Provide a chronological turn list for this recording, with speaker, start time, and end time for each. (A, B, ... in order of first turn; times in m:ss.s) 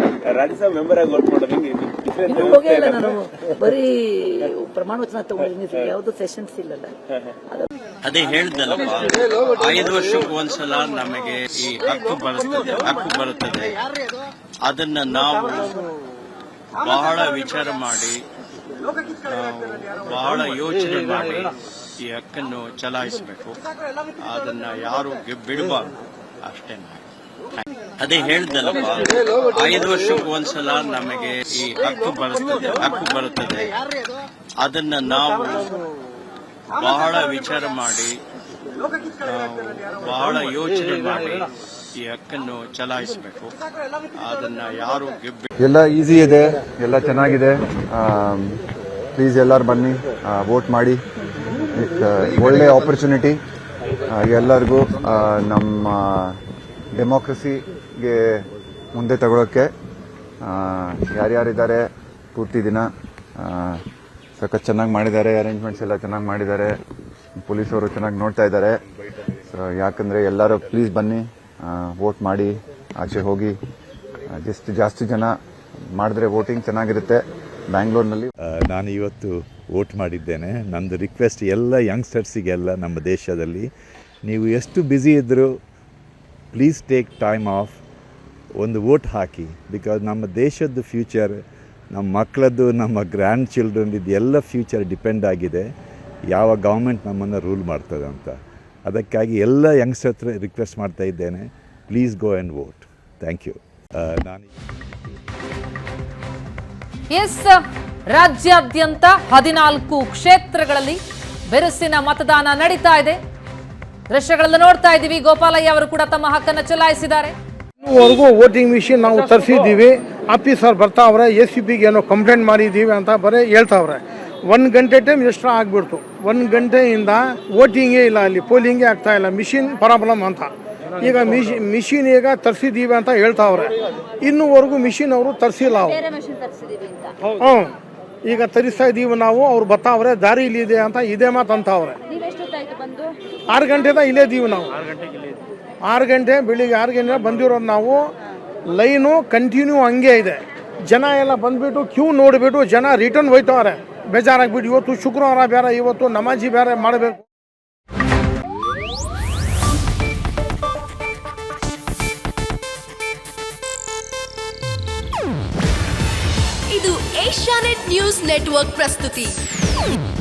0:00.2-0:03.1 A
0:02.2-0:06.9 B
0:08.0-0:13.8 C
0:14.6-0:15.8 C
0:16.8-0:18.2 C
0:19.2-0:21.5 C
0:22.0-0:23.6 C
0:24.2-0:25.9 C
0:26.4-0:27.0 C
0:27.5-0:33.7 C
0:34.6-0:35.7 C
0:36.7-0:38.1 C
0:39.2-0:43.5 C
0:44.1-0:45.5 C
0:45.6-0:48.6 D
0:49.1-0:51.0 D
0:51.7-0:53.4 D
0:54.1-0:56.4 D
0:56.9-0:59.7 D
1:00.4-1:02.9 D
1:03.4-1:03.8 D
1:04.4-1:06.8 D
1:07.4-1:08.8 D
1:09.5-1:13.5 D
1:14.3-1:15.3 D
1:16.0-1:18.3 D
1:18.4-1:23.6 E
1:24.2-1:25.5 E
1:26.5-1:27.8 E
1:28.6-1:31.4 E
1:31.9-1:35.6 E
1:36.3-1:38.3 E
1:38.8-1:44.4 E
1:47.1-1:53.2 F
1:54.1-1:57.3 F
1:57.8-2:13.7 G
2:14.2-2:16.0 G
2:17.3-2:17.7 G
2:18.2-2:22.0 G
2:23.5-2:24.7 G
2:25.8-2:28.0 G
2:28.7-2:37.2 G
2:46.7-2:49.4 H